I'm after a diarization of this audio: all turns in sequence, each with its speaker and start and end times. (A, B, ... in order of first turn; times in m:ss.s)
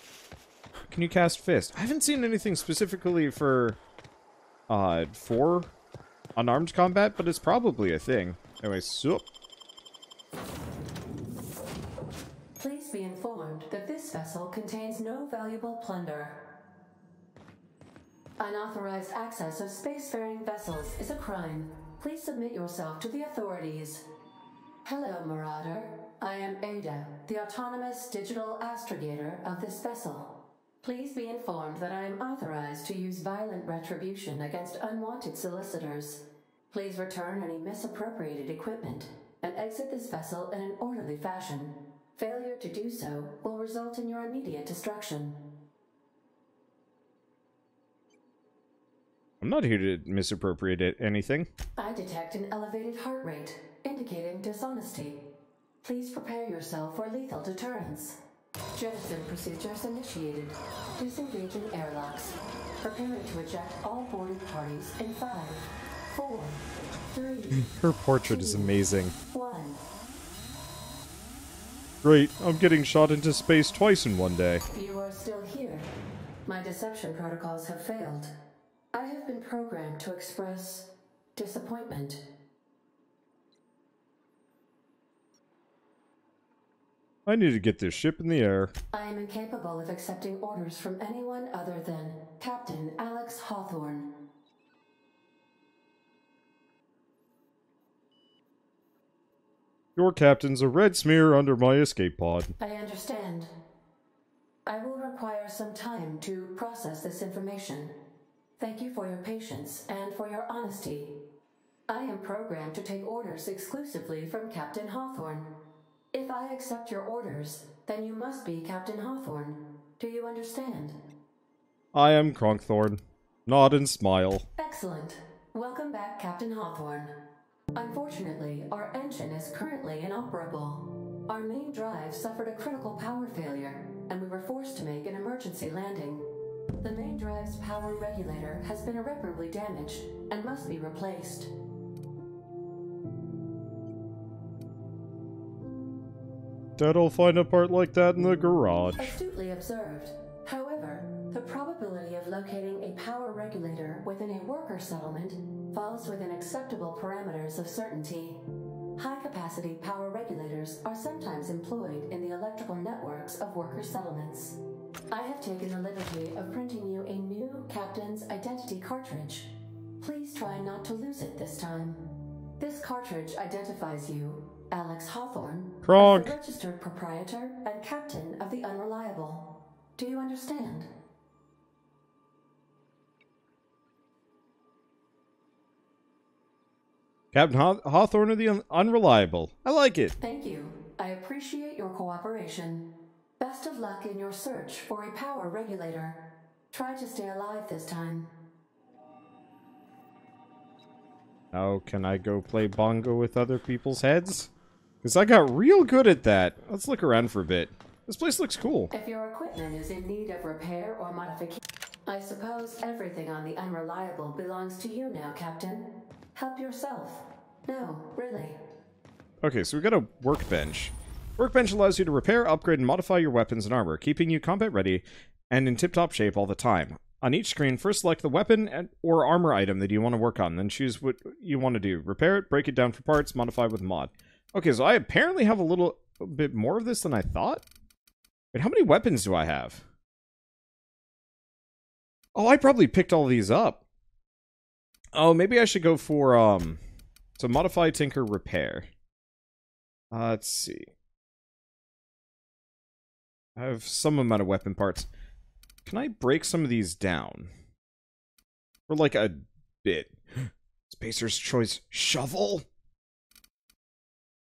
0:00.9-0:03.8 A
0:04.7-0:05.7 A
0:06.4-0:09.2 A
0:12.6-0:16.4 B
0:18.4-0:24.0 B
0:24.8-0:45.4 B
0:49.4-0:51.5 A
0:51.8-0:55.2 B
0:55.8-0:58.2 B
0:58.7-1:07.7 B
1:07.6-1:09.1 A
1:08.3-1:08.7 B
1:09.3-1:09.8 B
1:12.0-1:14.6 A
1:14.7-1:15.9 B
1:16.4-1:18.3 B
1:18.9-1:22.2 B
1:27.2-1:28.7 A
1:28.9-1:34.2 B
1:40.0-1:42.5 A
1:42.6-1:43.5 B
1:44.6-1:47.9 B
1:48.6-1:51.1 B
1:51.9-1:55.6 B
1:56.1-2:01.0 B
2:01.9-2:04.5 A
2:04.6-2:07.1 B
2:07.7-2:16.3 B
2:16.8-2:21.5 B
2:26.8-2:29.2 A
2:29.0-2:38.4 B
2:39.0-2:44.6 B
2:45.1-2:52.0 B
2:52.6-3:00.9 B
2:55.8-2:56.4 A
3:07.3-3:10.1 A
3:10.2-3:12.9 B
3:13.4-3:16.2 B
3:16.7-3:18.3 B
3:21.5-3:24.5 A
3:25.0-3:28.9 A
3:28.9-3:38.6 B
3:39.4-3:57.6 A
3:58.5-3:59.8 A
4:02.3-4:03.8 A
4:05.1-4:06.8 A
4:07.4-4:08.9 A
4:10.1-4:10.9 A
4:13.6-4:15.1 A
4:15.8-4:17.5 A
4:18.9-4:22.6 A